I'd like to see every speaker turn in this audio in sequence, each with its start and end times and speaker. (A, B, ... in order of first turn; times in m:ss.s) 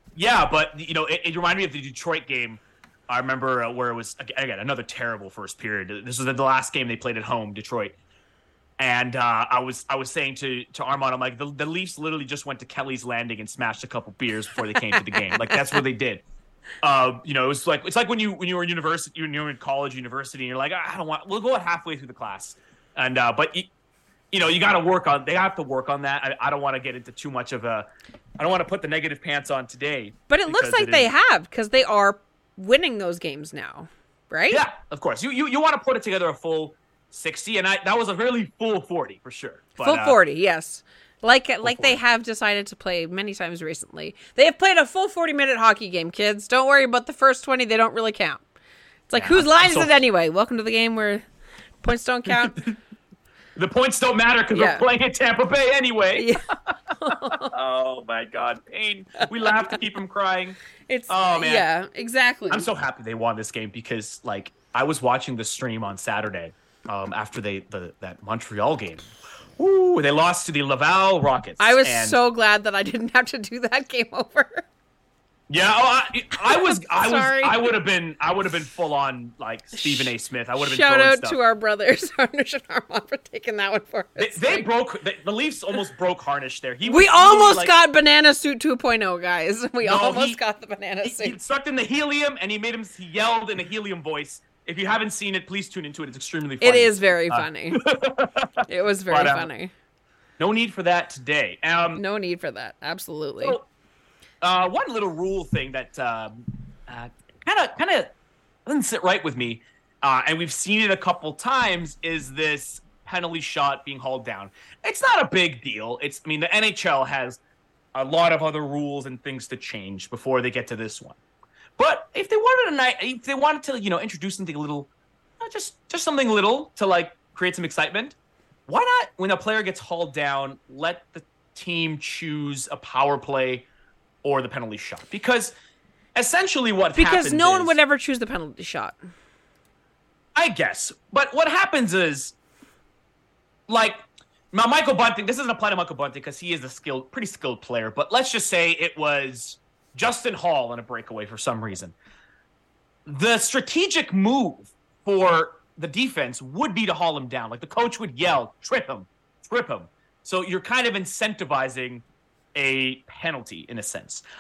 0:00.2-0:07.9 A
0:08.8-0:16.2 A
0:16.8-0:23.7 A
0:24.3-0:27.9 A
0:28.4-0:31.1 A
0:30.3-0:34.6 B
0:34.5-0:40.2 A
0:39.8-0:48.4 B
0:41.6-0:42.0 A
0:49.1-0:51.2 B
0:49.1-0:50.0 A
0:51.8-0:52.6 B
0:52.3-0:52.7 A
0:53.6-0:56.7 A
0:54.5-0:54.8 B
0:56.2-0:57.5 B
0:57.3-1:01.7 A
0:59.2-0:59.7 B
1:00.9-1:02.7 B
1:02.5-1:12.2 A
1:11.6-1:14.7 B
1:15.5-1:21.4 A
1:16.4-1:17.6 B
1:19.7-1:24.7 B
1:24.2-1:27.7 A
1:26.9-1:31.4 B
1:29.8-1:30.4 A
1:31.0-1:39.5 A
1:36.6-1:37.8 B
1:38.7-1:39.7 B
1:40.4-1:42.0 A
1:42.0-1:43.6 B
1:44.4-1:48.1 A
1:48.7-1:57.4 A
1:58.0-2:01.2 A
2:01.8-2:08.2 A
2:08.7-2:13.7 A
2:14.2-2:15.5 A
2:16.2-2:17.8 A
2:17.0-2:19.0 B
2:20.4-2:22.4 A
2:23.7-2:32.0 A
2:33.1-2:44.2 A